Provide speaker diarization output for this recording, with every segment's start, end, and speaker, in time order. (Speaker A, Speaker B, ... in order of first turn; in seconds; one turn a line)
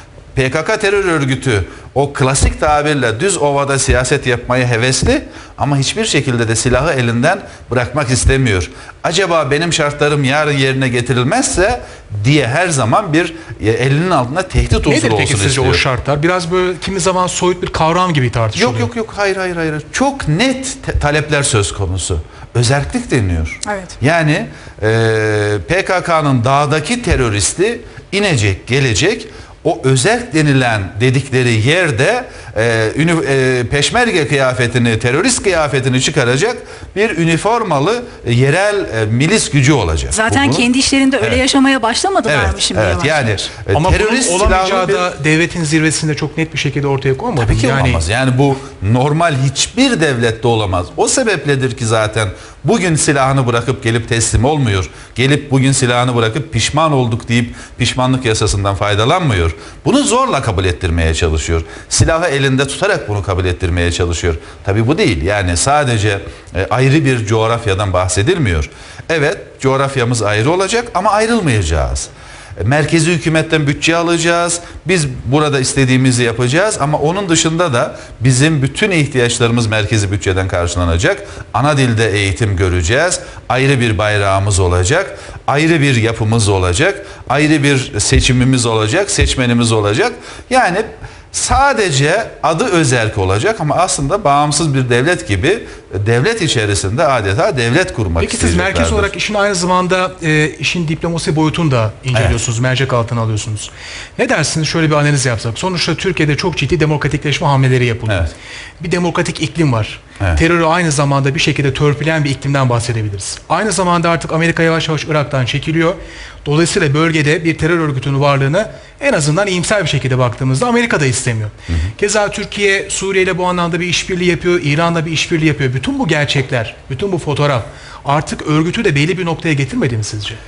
Speaker A: 0.3-15.8
Speaker B: 14.9-18.9
Speaker A: 18.6-40.7
Speaker C: 23.7-23.9
Speaker C: 40.1-43.5
Speaker A: 42.3-45.1
Speaker B: 43.7-48.0
Speaker A: 47.4-99.1
Speaker B: 98.2-130.4
Speaker A: 102.1-102.4